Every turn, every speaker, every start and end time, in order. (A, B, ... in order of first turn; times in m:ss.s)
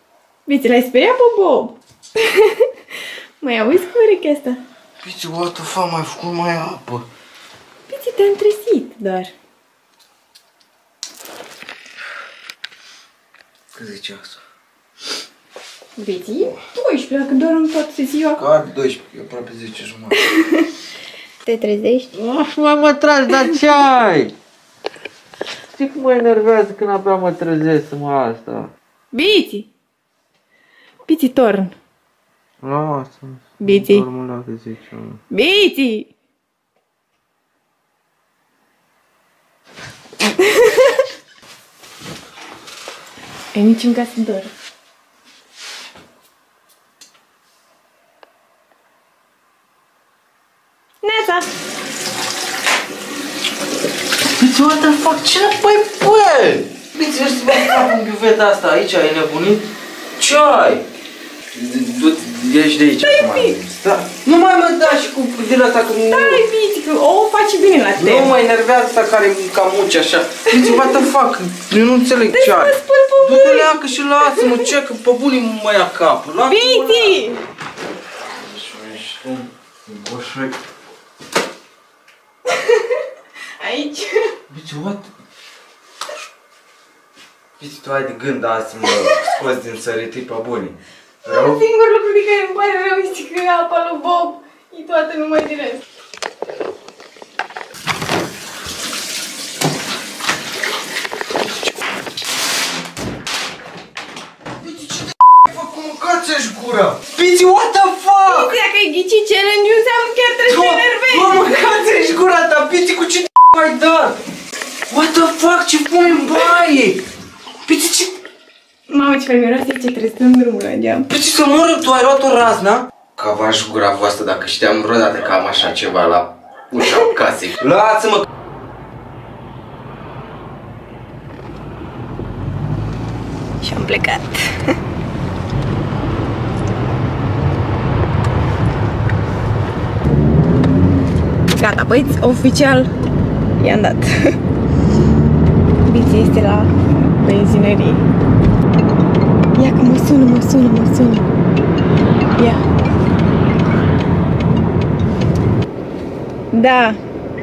0:00.5-0:02.7 A
0:03.4-0:04.6 A
0:05.0-0:07.1 B
0:07.9-0:09.3 A
0:13.7-0:14.4 B
0:16.0-0:18.4 A
0:18.4-0:20.2 B
0:20.2-0:20.7 A
0:21.4-0:22.1 A
0:22.1-0:24.3 B
0:25.7-0:28.7 B
0:29.1-0:29.7 A
0:31.0-0:31.8 A
0:32.6-0:35.2 B
0:33.6-0:34.1 A
0:35.3-0:36.1 A
0:40.4-0:40.9 A
0:43.5-0:44.5 A
0:51.0-0:51.5 A
0:54.3-1:00.8 B
1:01.5-1:06.4 B
1:03.0-1:03.6 A
1:06.1-1:08.4 A
1:08.0-1:17.2 B
1:10.5-1:11.0 A
1:12.3-1:14.7 A
1:16.4-1:17.4 A
1:18.3-1:20.6 B
1:22.5-1:23.0 A
1:23.6-1:24.3 A
1:24.5-1:25.1 B
1:27.6-1:31.6 B
1:31.2-1:35.8 A
1:44.6-1:48.6 B
1:48.2-1:51.6 A
1:50.5-1:54.2 B
1:54.9-1:57.0 B
1:57.7-1:58.1 B
1:58.9-2:01.1 A
2:01.1-2:08.3 B
2:13.6-2:14.7 A
2:21.6-2:22.9 A
2:23.6-2:24.3 A
2:25.8-2:28.0 A
2:29.6-2:31.3 A
2:32.4-2:32.6 A
2:36.5-2:37.0 A